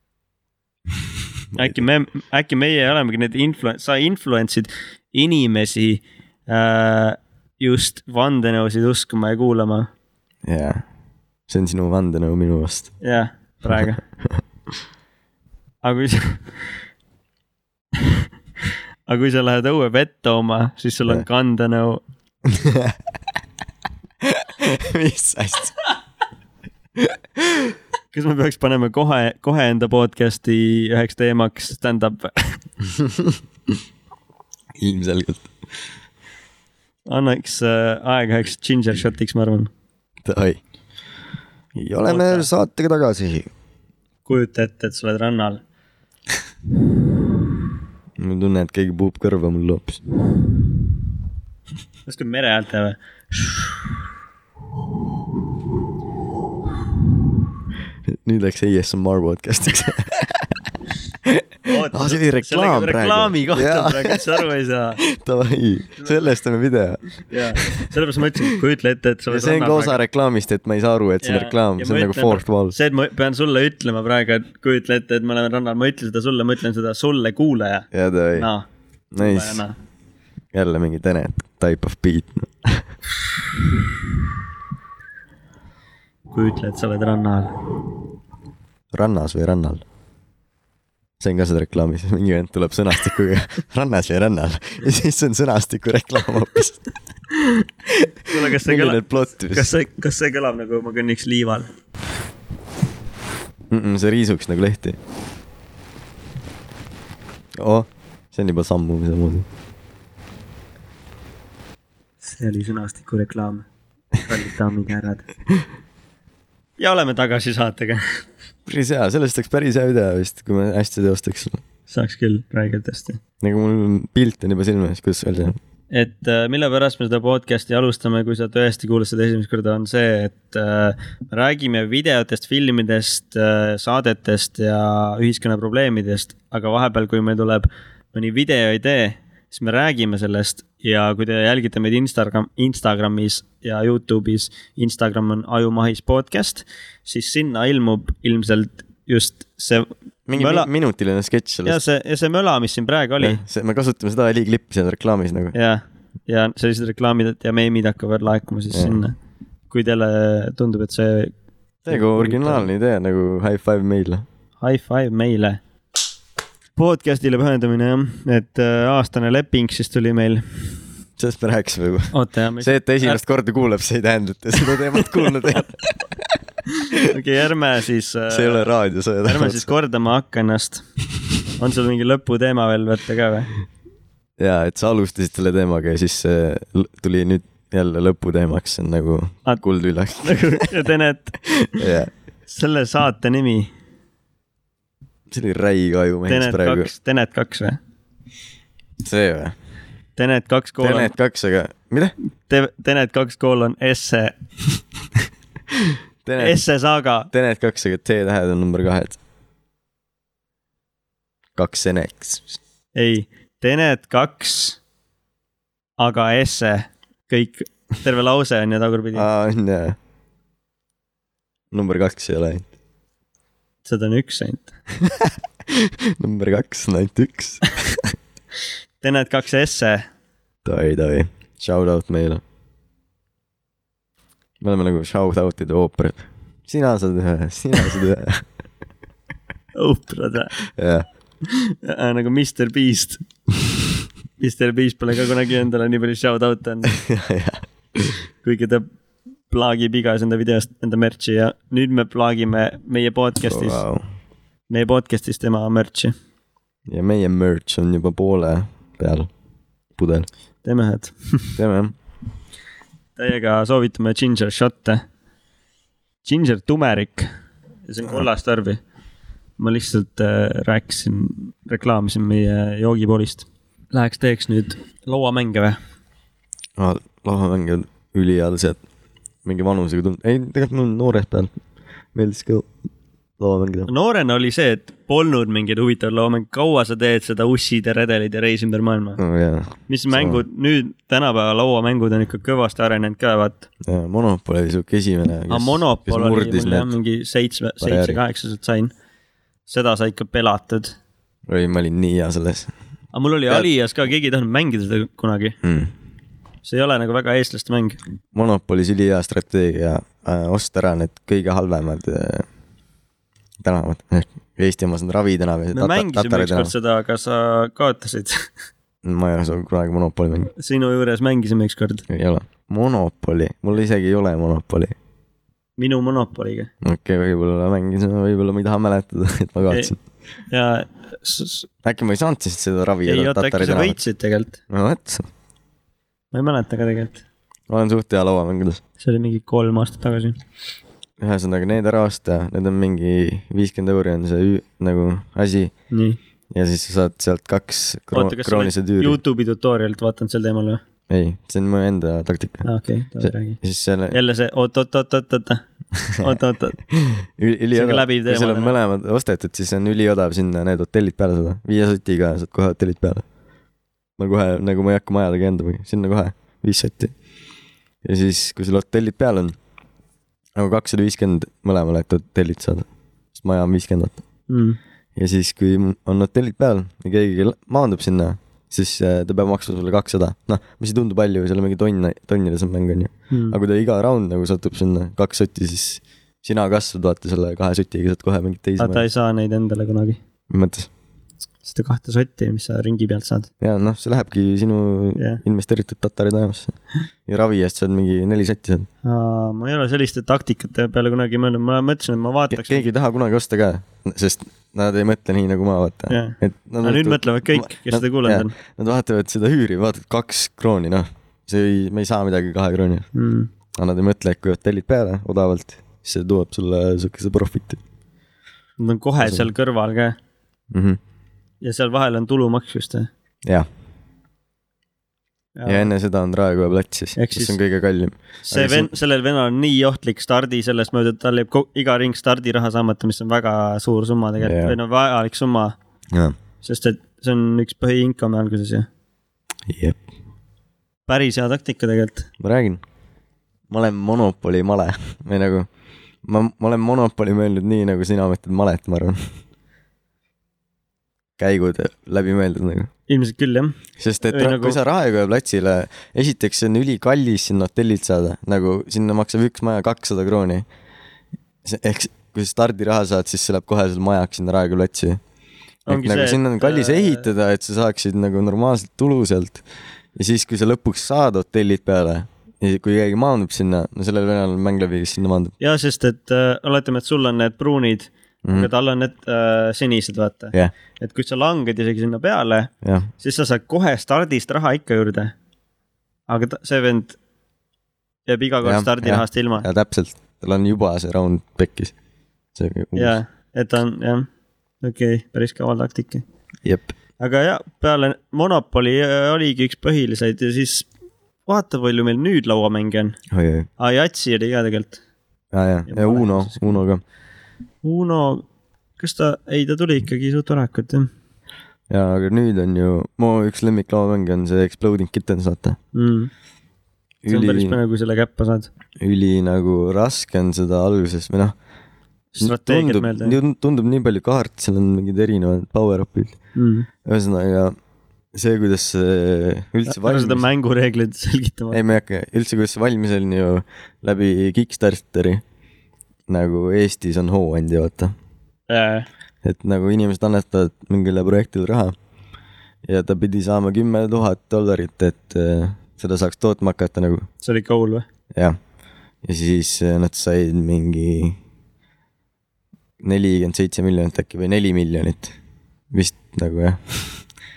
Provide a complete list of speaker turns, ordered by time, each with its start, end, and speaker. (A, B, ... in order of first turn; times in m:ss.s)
0:01.5-0:01.8 A
0:01.6-0:09.9 B
0:10.4-0:10.8 A
0:11.5-0:13.0 A
0:13.0-0:14.0 B
0:13.7-0:14.4 A
0:15.8-0:16.5 B
0:19.1-0:22.0 B
0:22.4-0:23.0 A
0:24.2-0:25.7 A
0:27.0-0:27.7 A
0:28.1-0:32.6 B
0:33.0-0:33.4 A
0:34.8-0:35.5 A
0:37.1-0:39.7 B
0:40.2-0:40.6 A
0:41.7-0:43.5 A
0:42.0-0:42.5 B
0:44.2-0:45.6 B
0:48.2-0:50.0 A
0:52.1-0:53.7 B
0:58.0-1:00.5 A
1:01.2-1:04.4 A
1:01.6-1:05.0 B
1:05.0-1:07.0 A
1:07.3-1:10.0 B
1:07.6-1:07.8 A
1:09.3-1:12.7 A
1:11.2-1:19.7 B
1:17.9-1:18.5 A
1:19.1-1:19.6 A
1:20.5-1:22.9 A
1:26.3-1:27.5 B
1:28.9-1:29.8 A
1:31.2-1:36.8 A
1:37.9-1:39.7 A
1:38.3-1:41.7 B
1:43.7-1:45.0 A
1:47.6-1:49.5 A
1:52.2-1:53.6 B
1:54.2-1:55.3 B
1:56.8-1:58.0 B
1:58.6-2:01.6 A
2:01.9-2:03.2 B
2:03.4-2:05.6 A
2:05.9-2:30.7 B
2:30.3-2:31.8 A
2:31.6-2:33.4 B
2:33.2-2:35.5 A
2:35.5-2:39.1 B
2:38.7-2:39.0 A
2:39.7-2:41.3 B
2:41.8-2:42.7 B
2:41.9-2:44.2 A
2:44.6-2:45.6 B
2:46.8-2:50.4 B
2:51.2-2:56.3 A
2:52.1-2:53.2 B
2:55.0-2:55.6 B
2:56.8-2:58.7 B
2:58.3-2:59.7 A
2:59.2-3:00.8 B
3:01.6-3:03.5 B
3:04.4-3:10.7 A
3:10.2-3:11.4 B
3:11.5-3:12.1 A
3:12.5-3:13.7 B
3:15.3-3:16.9 A
3:16.3-3:17.8 B
3:19.0-3:19.5 A
3:20.2-3:21.1 B
3:20.8-3:22.1 A
3:22.5-3:24.3 B
3:25.8-3:26.6 A
3:26.4-3:27.3 B
3:27.3-3:29.2 A
3:31.5-3:32.5 A
3:32.9-3:34.8 B
3:36.0-3:39.3 B
3:39.1-3:40.0 A
3:41.7-3:42.6 A
3:43.8-3:44.7 B
3:45.0-3:48.1 A
3:49.0-3:50.1 B
3:50.6-3:52.4 A
3:54.6-3:58.4 A
3:59.7-4:00.6 B
4:00.7-4:01.0 A
4:01.4-4:03.2 B
4:04.4-4:07.0 B
4:06.9-4:08.2 A
4:08.4-4:08.8 B
4:09.5-4:13.8 B
4:13.4-4:14.0 A
4:14.7-4:16.1 B
4:16.9-4:19.3 A
4:20.0-4:20.3 A
4:20.6-4:21.6 B
4:21.6-4:21.9 A
4:23.2-4:25.0 B
4:26.2-4:27.3 B
4:27.9-4:28.8 B
4:29.6-4:35.8 B
4:36.8-4:38.8 A
4:39.4-4:41.5 A
4:42.1-4:42.7 A
4:43.4-4:43.9 A
4:43.9-4:49.2 B
4:49.2-4:50.4 A
4:49.9-4:53.7 B
4:53.8-4:56.9 A
4:55.5-4:58.9 B
4:57.8-4:58.2 A
4:59.7-5:00.9 B
5:01.5-5:02.7 A
5:03.1-5:05.6 B
5:05.6-5:05.9 A
5:06.6-5:08.0 B
5:08.3-5:12.5 A
5:13.6-5:16.7 A
5:15.7-5:18.5 B
5:19.0-5:20.5 A
5:20.5-5:22.0 B
5:22.1-5:24.9 A
5:25.8-5:26.7 B
5:26.8-5:30.0 A
5:30.5-5:31.7 B
5:31.8-5:34.0 A
5:33.0-5:34.6 B
5:34.7-5:35.3 A
5:36.3-5:37.2 B
5:37.7-5:38.8 A
5:39.0-5:40.4 B
5:41.2-5:45.7 A
5:45.9-5:46.2 B
5:46.5-5:49.2 A
5:48.1-5:50.8 B
5:51.1-5:52.6 A
5:52.6-5:55.6 B
5:53.2-5:54.2 A
5:56.0-5:56.4 A
5:56.2-5:56.8 B
5:56.9-6:03.2 A
5:57.7-5:58.7 B
6:04.2-6:07.1 A
6:08.0-6:09.5 A
6:10.6-6:14.2 A
6:14.5-6:14.8 B
6:15.2-6:29.0 A
6:23.3-6:23.6 B
6:28.8-6:30.2 B
6:30.5-6:30.9 A
6:31.6-6:33.5 B
6:33.6-6:36.7 A
6:37.2-6:38.9 A
6:39.0-6:42.9 B
6:42.5-6:53.0 A
6:46.1-6:48.5 B
6:53.1-6:53.5 B
6:53.7-6:57.8 A
6:58.8-7:00.1 B
6:59.2-6:59.5 A
7:00.7-7:01.0 A
7:01.6-7:03.1 B
7:05.5-7:05.9 B
7:05.6-7:08.9 A
7:07.2-7:07.6 B
7:08.4-7:15.8 B
7:14.4-7:14.8 A
7:16.6-7:18.9 B
7:19.7-7:20.0 A
7:21.1-7:22.3 B
7:22.4-7:22.8 A
7:23.7-7:25.7 A
7:26.2-7:29.2 A
7:31.4-7:32.9 A
7:33.1-7:34.8 B
7:34.0-7:40.7 A
7:41.6-7:45.2 A
7:45.9-7:49.6 A
7:45.9-7:47.3 B
7:50.2-7:55.5 A
7:55.6-8:05.3 B
7:58.4-7:58.7 A
8:02.8-8:03.1 A
8:06.3-8:07.2 B
8:08.3-8:09.7 B
8:08.6-8:11.9 A
8:12.5-8:13.2 A
8:12.9-8:14.3 B
8:14.8-8:16.2 B
8:16.6-8:16.9 A
8:17.2-8:20.9 B
8:21.5-8:23.2 B
8:23.3-8:23.7 A
8:23.8-8:25.0 B
8:25.5-8:27.0 A
8:25.9-8:26.8 B
8:27.8-8:28.4 B
8:29.0-8:31.1 B
8:31.9-8:35.8 A
8:35.9-8:36.3 B
8:37.2-8:37.8 A
8:37.3-8:38.7 B
8:39.0-8:41.5 A
8:42.3-8:43.4 B
8:42.4-8:46.3 A
8:46.5-8:46.9 B
8:47.0-8:47.7 A
8:48.3-8:50.4 A
8:49.8-8:51.8 B
8:51.7-8:55.4 A
8:56.3-8:58.1 A
8:58.7-8:59.1 B
8:59.4-9:01.9 A
9:02.8-9:07.3 A
9:07.4-9:08.0 B
9:09.2-9:11.4 A
9:13.0-9:15.3 A
9:15.9-9:17.2 A